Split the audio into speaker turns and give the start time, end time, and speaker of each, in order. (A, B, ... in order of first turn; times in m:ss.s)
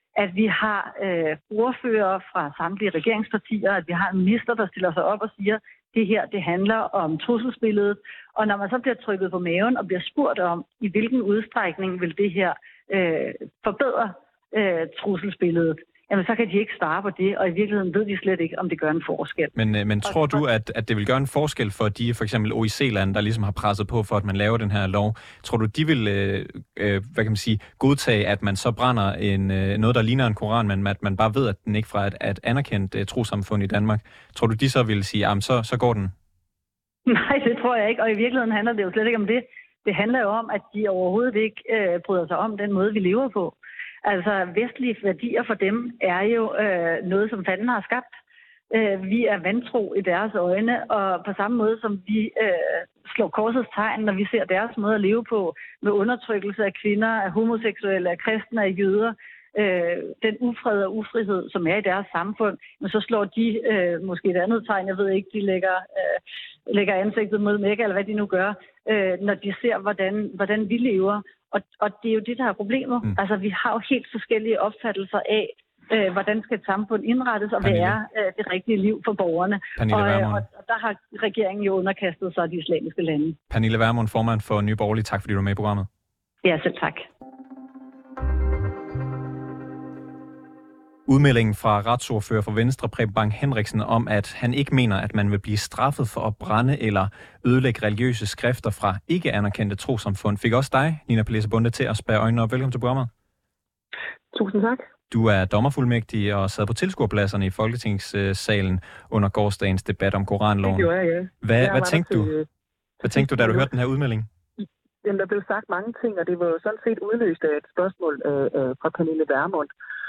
0:00.2-0:19.5 A
0:19.6-0:36.1 B
0:20.0-0:20.4 A
0:37.1-0:48.1 A
0:48.7-1:23.4 A
1:17.6-1:18.0 B
1:19.8-1:20.4 B
1:23.5-1:25.9 B
1:26.4-1:27.1 A
1:31.1-1:43.1 B
1:44.3-1:44.9 C
1:45.1-1:50.9 B
1:50.6-1:52.5 C
1:51.4-1:52.3 B
1:53.0-1:53.7 C
1:53.0-1:54.3 B
1:54.6-1:59.7 C